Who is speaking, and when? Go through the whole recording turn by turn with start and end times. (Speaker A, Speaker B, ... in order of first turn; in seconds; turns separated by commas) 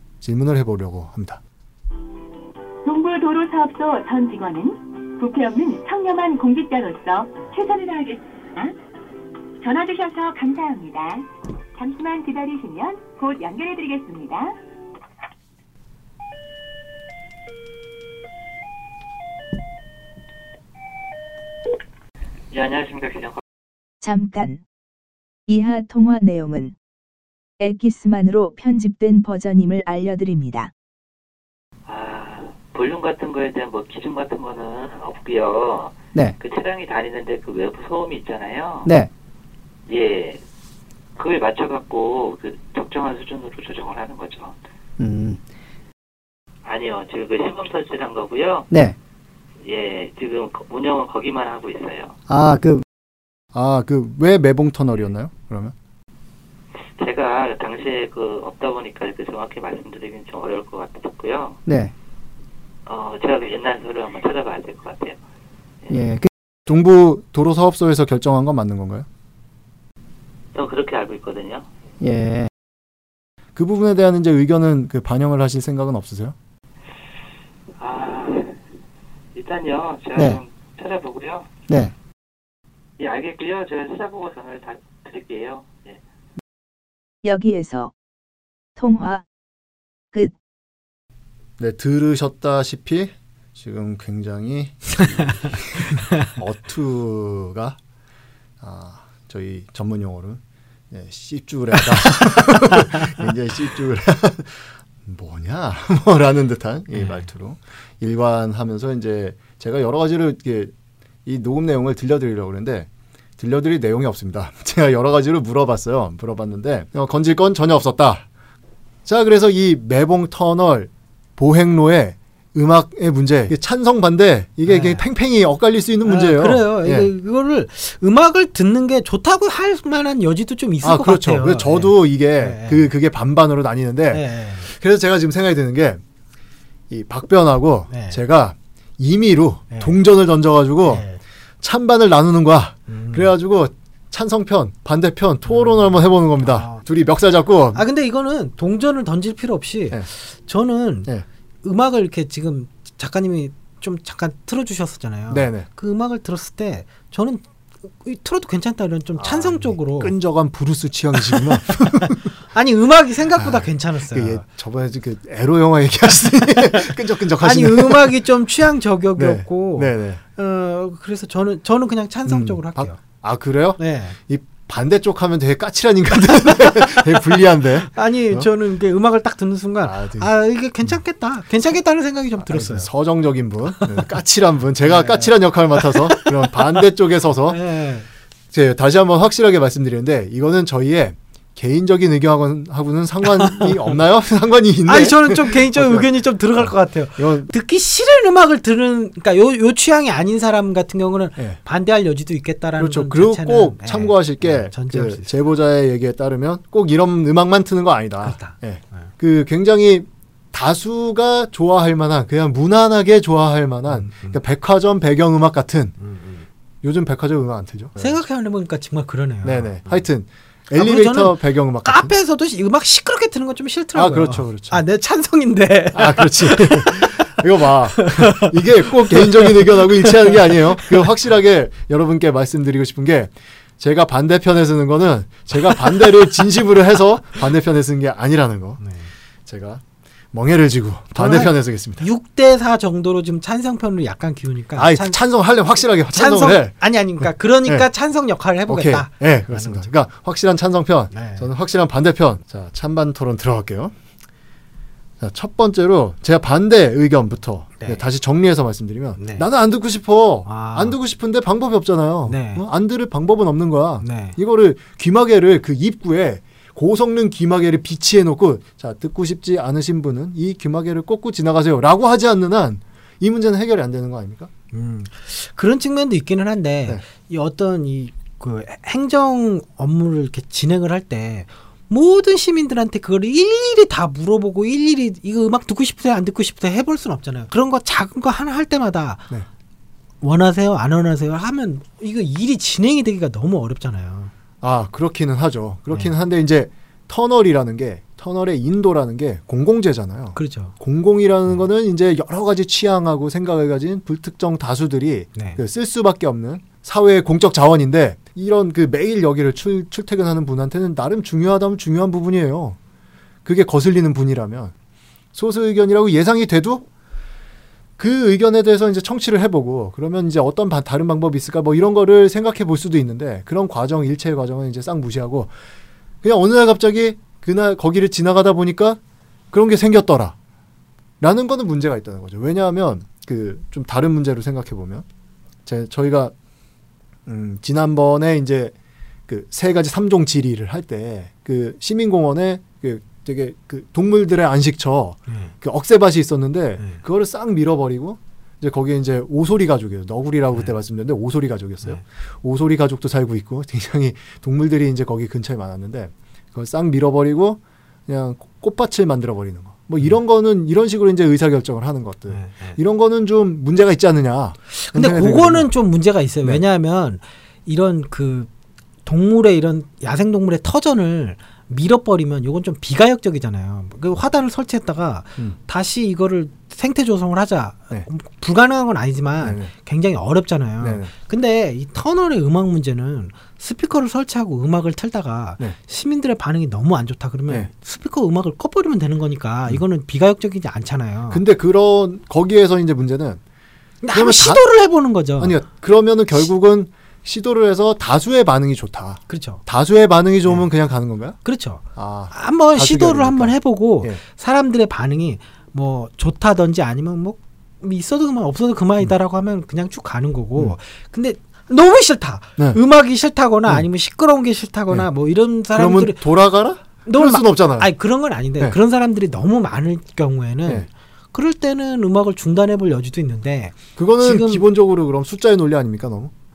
Speaker A: 0.2-1.4, Speaker B: 2.8-8.8, Speaker B: 9.6-14.6, Speaker C: 22.5-23.4, Speaker D: 24.0-24.6, Speaker D: 25.5-26.7, Speaker D: 27.6-30.7, Speaker C: 31.9-38.9, Speaker C: 39.9-40.4, Speaker C: 41.2-44.6, Speaker E: 45.0-45.4, Speaker C: 46.6-48.7, Speaker E: 48.7-49.0, Speaker C: 49.6-52.2, Speaker E: 52.3-52.8, Speaker A: 53.5-55.7, Speaker C: 57.0-61.6, Speaker E: 61.6-61.9, Speaker C: 62.9-65.2, Speaker E: 65.9-66.3, Speaker A: 66.7-69.1, Speaker C: 70.5-71.7, Speaker E: 72.0-72.5, Speaker A: 73.6-76.3, Speaker C: 77.8-78.6, Speaker C: 79.3-81.5, Speaker E: 80.2-80.4, Speaker E: 81.7-81.9, Speaker C: 83.0-86.0, Speaker D: 87.2-87.9, Speaker D: 88.8-89.2, Speaker A: 91.6-97.8, Speaker A: 98.6-100.4, Speaker A: 100.9-110.7, Speaker F: 106.9-107.2, Speaker A: 111.2-118.3, Speaker A: 119.1-127.1, Speaker F: 124.7-125.0, Speaker F: 126.0-132.9, Speaker A: 130.8-136.0, Speaker F: 134.1-134.7, Speaker A: 136.9-141.1, Speaker F: 137.9-138.2, Speaker F: 140.9-141.2, Speaker A: 141.6-147.8, Speaker F: 142.9-143.3, Speaker F: 145.5-146.8, Speaker F: 147.8-151.1, Speaker F: 151.6-157.4, Speaker A: 155.3-155.7, Speaker F: 158.0-160.2, Speaker A: 159.2-162.3, Speaker F: 161.2-161.5, Speaker F: 162.5-164.4, Speaker A: 163.4-168.2, Speaker F: 167.4-173.0, Speaker A: 169.2-170.2, Speaker A: 172.3-178.5, Speaker F: 173.8-174.2, Speaker F: 176.7-177.4, Speaker F: 177.9-182.9, Speaker A: 179.8-180.3, Speaker A: 182.4-187.6, Speaker F: 183.9-184.1, Speaker F: 184.8-186.7, Speaker F: 187.5-188.1, Speaker A: 188.5-197.5, Speaker F: 193.4-193.9, Speaker F: 194.9-205.3, Speaker A: 202.8-216.0, Speaker F: 208.2-209.1, Speaker F: 213.9-214.4, Speaker F: 216.0-216.4, Speaker A: 216.8-218.2, Speaker F: 218.0-220.0, Speaker A: 219.4-222.1, Speaker F: 220.7-227.4, Speaker A: 223.9-224.8, Speaker A: 225.9-238.8, Speaker F: 228.0-228.5, Speaker F: 229.1-231.0, Speaker F: 235.7-236.2, Speaker F: 238.8-239.1, Speaker A: 239.5-239.8, Speaker A: 240.3-242.1, Speaker F: 241.2-245.2, Speaker A: 244.8-247.9, Speaker F: 246.1-249.9, Speaker A: 248.7-253.9, Speaker F: 251.1-251.5, Speaker A: 255.2-274.5, Speaker F: 259.2-259.4, Speaker F: 260.5-261.0, Speaker F: 262.3-262.6, Speaker F: 264.0-264.4, Speaker F: 274.7-289.3, Speaker F: 290.2-294.3, Speaker A: 294.6-312.8, Speaker F: 300.4-300.7, Speaker A: 313.4-314.7, Speaker A: 315.3-316.9, Speaker A: 318.0-325.5, Speaker A: 326.2-329.0, Speaker A: 329.5-330.4, Speaker A: 331.2-335.1, Speaker A: 335.7-336.3, Speaker A: 337.3-338.7, Speaker A: 339.3-365.7, Speaker F: 345.3-345.5, Speaker F: 362.3-362.8, Speaker F: 364.8-368.5, Speaker F: 369.1-391.4, Speaker A: 379.4-379.7, Speaker A: 380.8-381.1, Speaker A: 391.3-393.4, Speaker F: 394.0-395.6, Speaker A: 394.1-394.6, Speaker A: 395.4-401.4, Speaker F: 399.3-399.6, Speaker F: 401.4-416.3, Speaker A: 401.9-404.2, Speaker A: 415.8-417.9, Speaker F: 417.1-424.6, Speaker A: 424.0-426.3